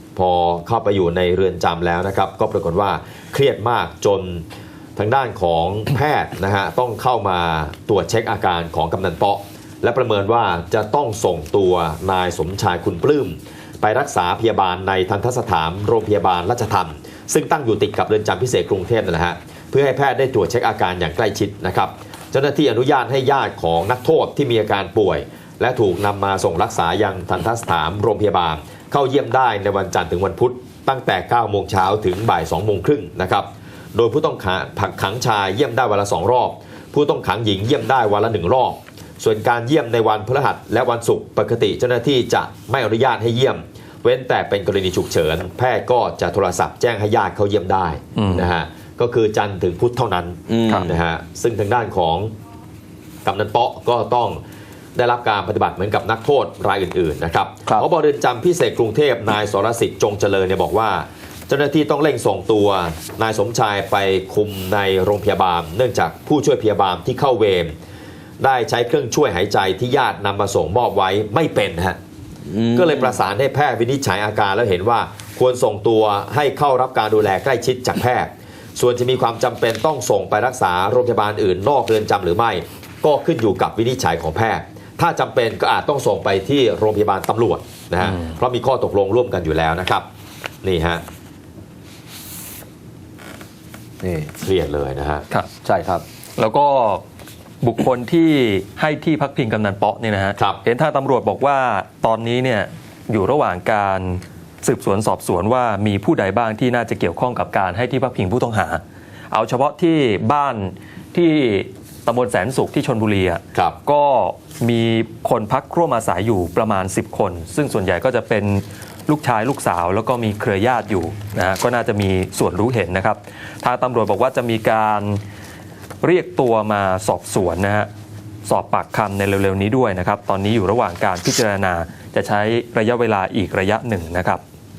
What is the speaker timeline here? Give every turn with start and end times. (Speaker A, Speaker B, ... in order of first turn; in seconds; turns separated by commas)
Speaker A: 0.1-4.4, Speaker A: 5.0-52.3, Speaker B: 48.1-48.5, Speaker C: 50.5-51.0, Speaker A: 53.2-54.4, Speaker A: 54.9-67.7, Speaker A: 68.4-72.0, Speaker C: 72.5-73.2, Speaker A: 72.7-90.0, Speaker B: 88.0-88.3, Speaker A: 90.6-91.0, Speaker C: 94.0-94.3, Speaker A: 94.4-95.2, Speaker C: 95.6-96.0, Speaker B: 96.4-97.0, Speaker B: 97.6-125.2, Speaker B: 126.0-127.9, Speaker B: 128.4-134.4